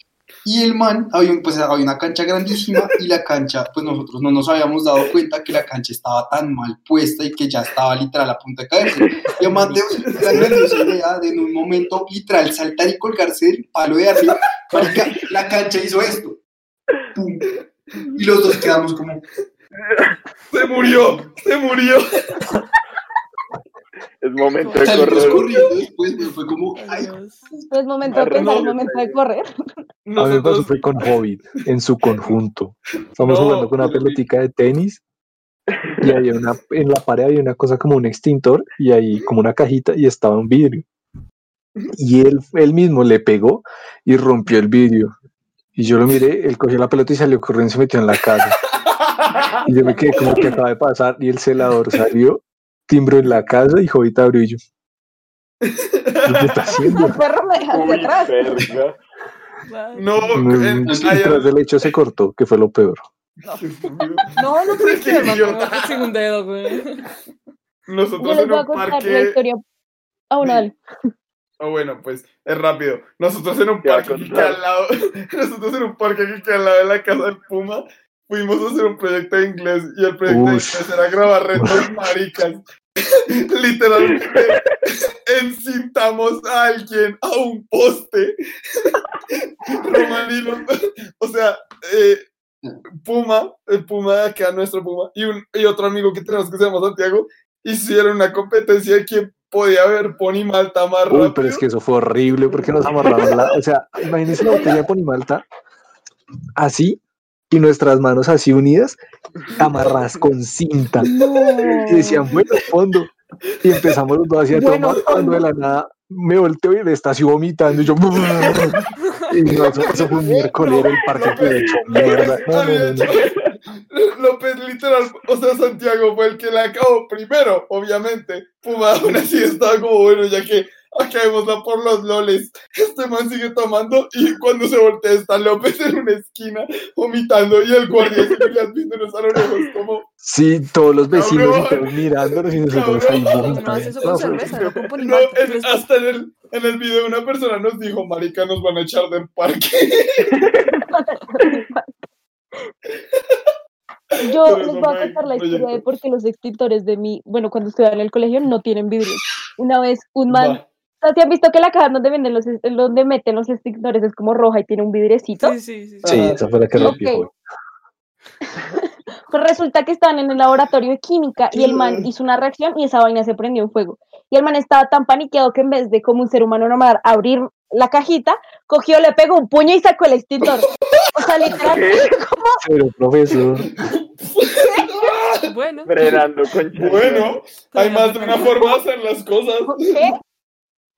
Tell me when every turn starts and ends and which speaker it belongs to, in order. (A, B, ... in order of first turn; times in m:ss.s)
0:00.4-0:16.4 A
0:10.0-0:10.9 B
0:17.1-0:17.4 A
0:18.1-0:19.2 A
0:19.8-0:20.1 C
0:20.5-0:22.0 B
0:24.2-0:25.5 C
0:24.6-0:25.5 D
0:24.8-0:27.6 A
0:26.2-0:27.4 D
0:27.7-0:29.5 E
0:28.0-0:29.1 C
0:28.2-0:28.7 B
0:30.0-0:31.1 B
0:30.2-0:35.0 F
0:33.2-0:34.2 B
0:35.7-0:36.2 C
0:36.0-0:40.8 F
0:42.0-0:45.1 F
0:45.8-0:48.6 F
0:48.7-0:49.6 B
0:49.6-0:54.6 F
0:49.7-0:50.5 D
0:55.6-0:56.8 B
0:56.2-0:57.2 F
0:56.8-0:58.4 E
0:57.7-0:59.0 C
0:59.6-1:00.5 D
1:00.0-1:01.9 B
1:00.3-1:03.0 F
1:00.8-1:01.2 A
1:03.4-1:07.1 D
1:03.6-1:06.1 B
1:07.9-1:09.4 B
1:08.2-1:09.6 E
1:10.3-1:10.8 E
1:10.4-1:10.7 B
1:11.6-1:32.2 B
1:13.8-1:14.6 C
1:20.3-1:20.8 F
1:21.5-1:21.9 F
1:24.1-1:24.5 C
1:33.0-1:41.6 B
1:41.1-1:45.4 F
1:43.0-1:43.4 B
1:46.6-1:49.0 F
1:49.6-1:51.1 F
1:49.6-1:49.9 B
1:51.0-1:52.3 E
1:51.9-1:53.1 F
1:53.6-2:03.1 F
1:53.6-1:53.9 B
1:54.5-1:55.4 E
1:58.2-1:58.9 B
1:59.0-1:59.3 D
1:59.5-2:03.3 B
2:01.4-2:02.4 C
2:03.1-2:03.5 C
2:03.9-2:20.0 B
2:20.2-2:24.6 F
2:21.1-2:30.4 B
2:23.3-2:25.9 D
2:30.3-2:30.6 C
2:30.7-2:31.9 E
2:33.1-2:33.5 B
2:34.2-2:45.5 E
2:34.3-2:35.8 B
2:40.3-2:40.6 B
2:45.4-2:46.3 D
2:46.0-2:46.4 B
2:46.0-2:47.3 F
2:46.1-2:47.0 A
2:46.7-2:47.2 E
2:49.3-3:02.6 E
2:51.5-2:52.1 B
3:00.7-3:01.6 B
3:01.6-3:02.1 C
3:02.6-3:03.7 F
3:03.5-3:05.5 B
3:05.4-3:06.0 D
3:05.8-3:07.3 C
3:06.7-3:10.1 B
3:07.7-3:08.8 D
3:09.7-3:10.2 E